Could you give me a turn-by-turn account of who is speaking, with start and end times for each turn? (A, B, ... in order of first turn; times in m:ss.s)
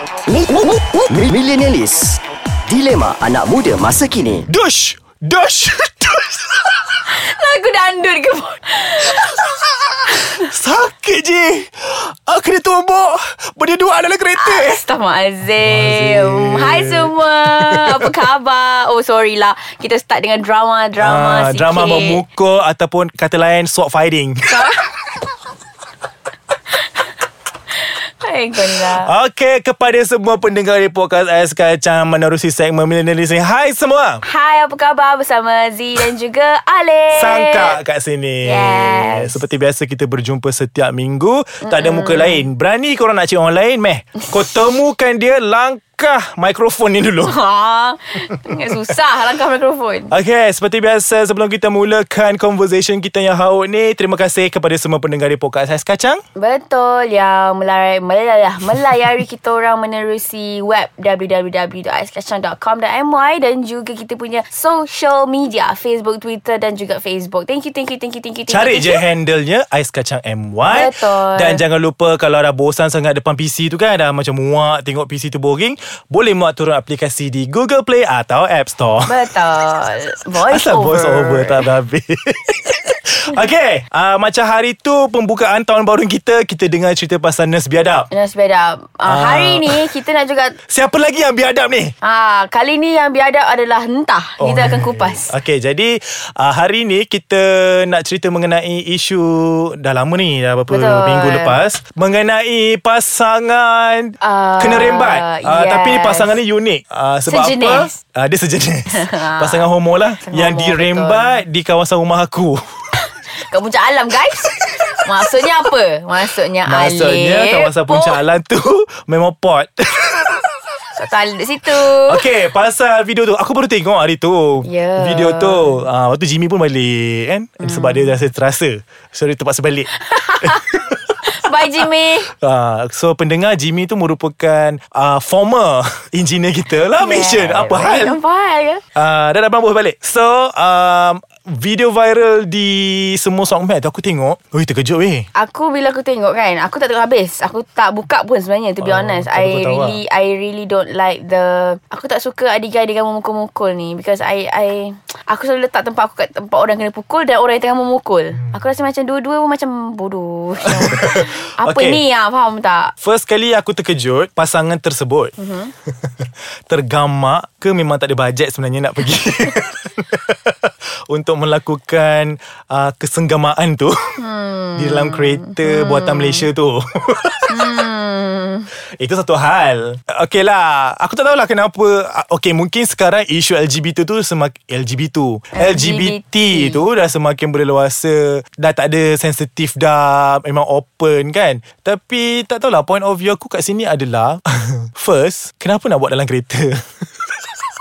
0:00.3-0:04.4 A
0:04.5-0:06.6 B
0:07.1-0:10.5 C
0:10.4-0:14.8 B
0:14.3-0:22.2 C
0:15.6-0:18.1 B
0:21.0-0:24.7 B
0:24.5-0:24.8 C
0:26.7-0:27.1 C
0:27.7-0:29.1 C
0:28.7-0:34.2 B
0:34.2-0:37.8 C
0:37.1-0:47.4 B
0:38.4-0:39.4 C
0:41.6-0:42.4 C
0:47.2-0:50.1 C
0:50.1-0:56.2 B
0:56.4-1:09.0 C
1:08.5-1:19.2 B
1:10.6-1:11.6 C
1:19.0-1:21.6 C
1:20.4-1:28.1 B
1:28.1-1:30.6 C
1:29.0-1:29.9 B
1:30.7-1:31.9 B
1:32.0-1:35.3 C
1:34.4-1:52.6 B
1:40.7-1:41.6 C
1:44.2-1:46.4 C
1:47.3-1:48.0 C
1:48.9-1:51.4 C
1:53.0-1:58.2 C
1:56.6-2:00.3 B
2:00.9-2:02.3 C
2:01.9-2:11.2 B
2:04.6-2:05.8 C
2:07.6-2:08.1 C
2:09.9-2:12.3 C
2:12.3-2:18.2 B
2:16.9-2:18.8 C
2:18.9-2:25.3 B
2:25.3-2:42.9 C
2:28.8-2:30.0 B
2:40.6-2:42.0 B
2:43.0-2:45.3 B
2:45.4-2:45.7 C
2:45.9-2:54.2 B
2:54.2-2:56.5 C
2:54.8-2:57.6 B
2:57.5-2:58.7 C
2:59.0-3:17.0 B
3:05.5-3:06.8 C